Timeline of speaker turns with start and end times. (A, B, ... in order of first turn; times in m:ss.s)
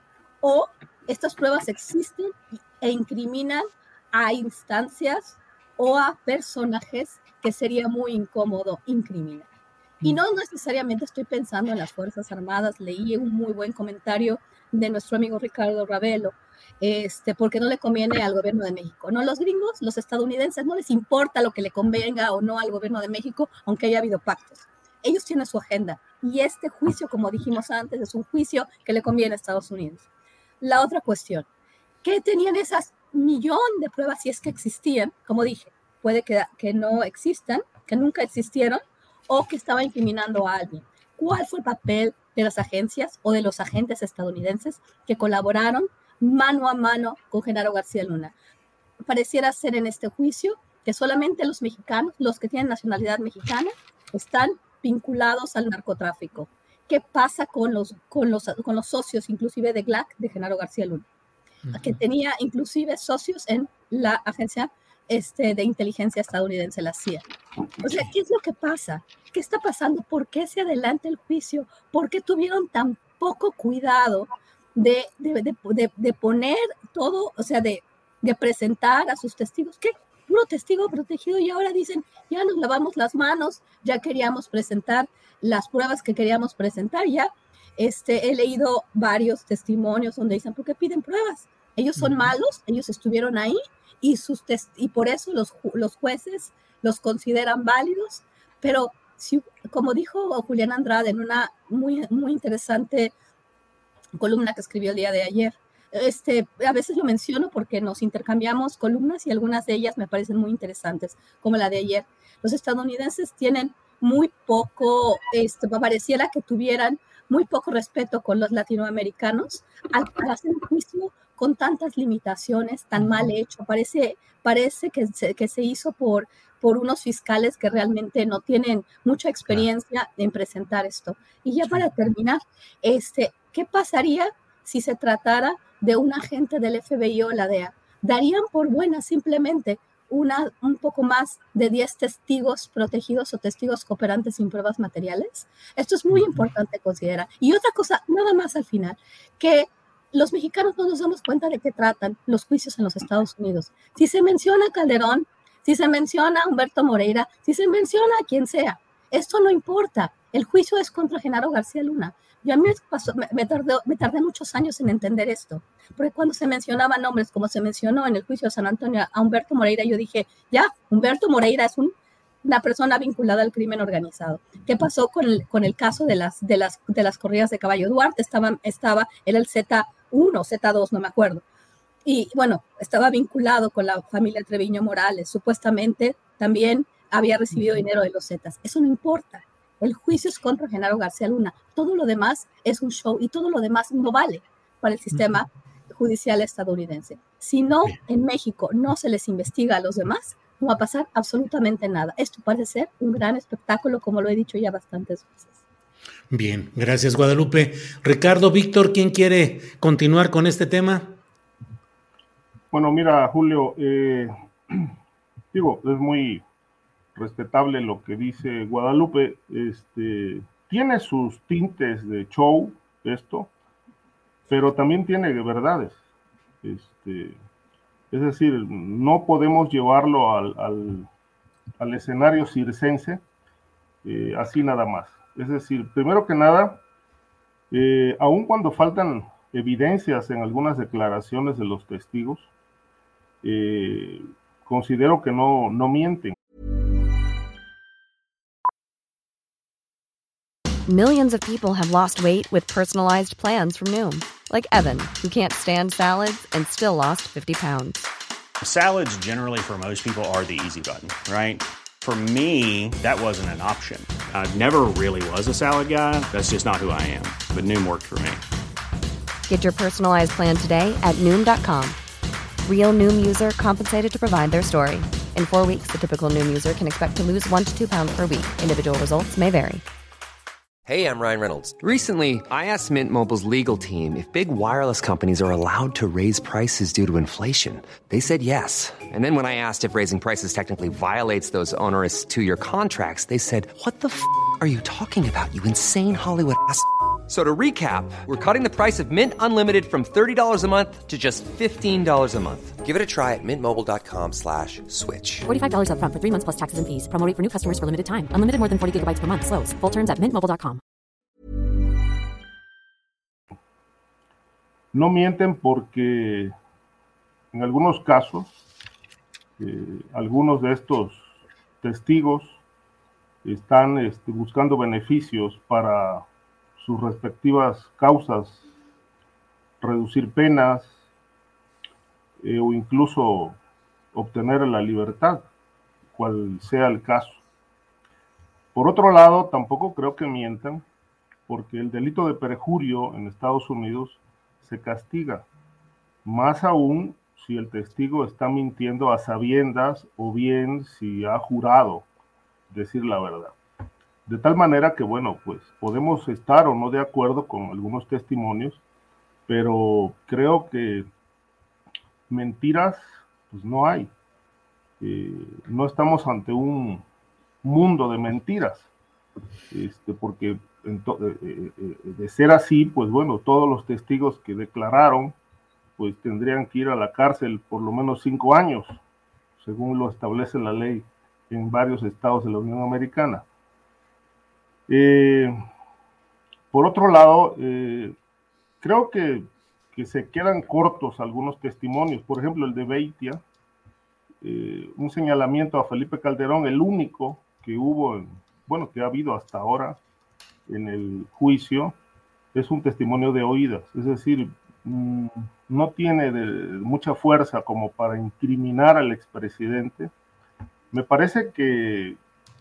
0:00.4-0:09.5 A
0:10.0-0:30.0 A
0:30.6-0:31.5 A
0:32.0-0:48.3 A
0:49.1-1:01.0 A
1:01.6-1:02.0 B
1:01.7-1:07.2 A
1:07.8-1:08.1 B
1:07.8-1:43.1 A
1:32.0-1:32.3 B
1:44.2-2:51.9 A
2:52.4-3:01.4 A
3:02.0-3:25.5 A
3:26.3-3:31.2 B
3:32.7-3:34.8 C
3:35.5-3:36.4 C
3:37.2-3:43.5 C
3:44.5-3:46.0 C
3:46.6-3:47.4 C
3:48.1-3:51.1 C
3:51.8-3:53.2 C
3:54.0-3:56.8 C
3:57.7-4:02.5 C
4:03.4-4:06.4 C
4:10.9-4:18.1 D
4:18.6-4:28.4 E
4:29.5-4:32.0 D
4:32.7-4:39.8 D
4:40.9-5:05.5 F
5:05.4-5:10.8 G
5:14.9-5:16.5 C
5:17.5-5:18.5 C
5:19.6-5:22.6 C
5:23.4-5:26.3 C
5:26.8-5:28.6 C
5:29.8-5:31.0 C
5:32.4-5:33.6 C
5:34.1-5:35.5 C
5:36.2-5:37.4 C
5:38.7-5:40.8 C
5:41.5-5:45.5 C
5:46.2-5:52.1 C
5:52.7-5:53.6 C
5:54.3-5:58.8 C
5:59.5-6:01.1 C
6:02.3-6:04.1 C
6:05.0-6:07.0 C
6:07.6-6:08.9 C
6:09.7-6:15.4 C
6:16.0-6:19.0 C
6:19.6-6:23.4 C
6:24.9-6:25.6 C
6:26.7-6:28.2 C
6:28.8-6:33.4 C
6:34.4-6:40.0 C
6:40.7-6:42.0 C
6:42.5-6:50.1 C
6:50.9-6:52.2 C